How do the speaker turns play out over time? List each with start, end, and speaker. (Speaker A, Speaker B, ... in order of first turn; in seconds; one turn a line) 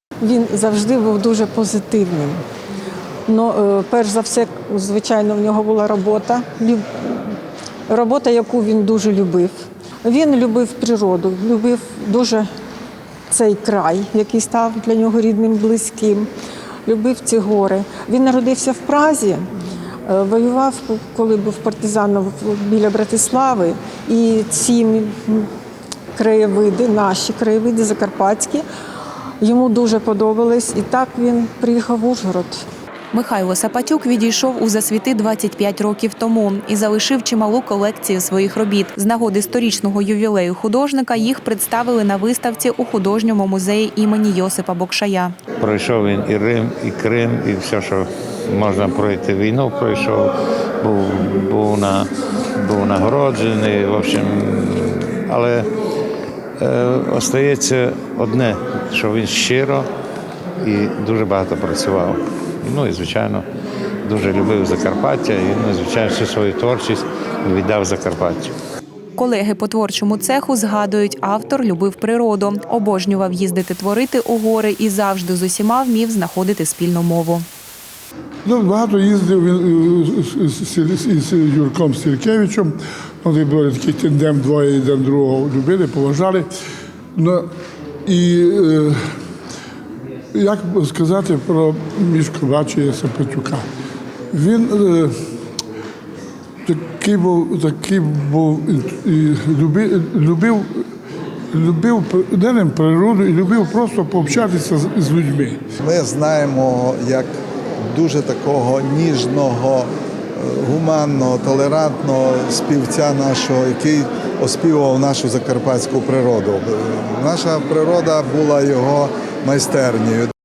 Speaker A: 0.2-2.4
Speaker A: 3.3-7.4
Speaker A: 7.9-12.5
Speaker A: 13.3-16.3
Speaker A: 16.9-19.5
Speaker A: 20.1-25.5
Speaker A: 26.1-28.6
Speaker A: 29.4-32.6
Speaker B: 33.1-45.3
Speaker C: 45.6-55.7
Speaker C: 56.6-59.9
Speaker C: 60.6-63.5
Speaker C: 64.0-68.5
Speaker B: 69.2-77.5
Speaker D: 78.4-86.5
Speaker D: 87.2-87.5
Speaker D: 88.1-89.0
Speaker D: 90.3-93.7
Speaker D: 94.3-95.1
Speaker D: 96.7-100.8
Speaker D: 101.5-105.6
Speaker E: 105.8-107.3
Speaker E: 107.9-120.3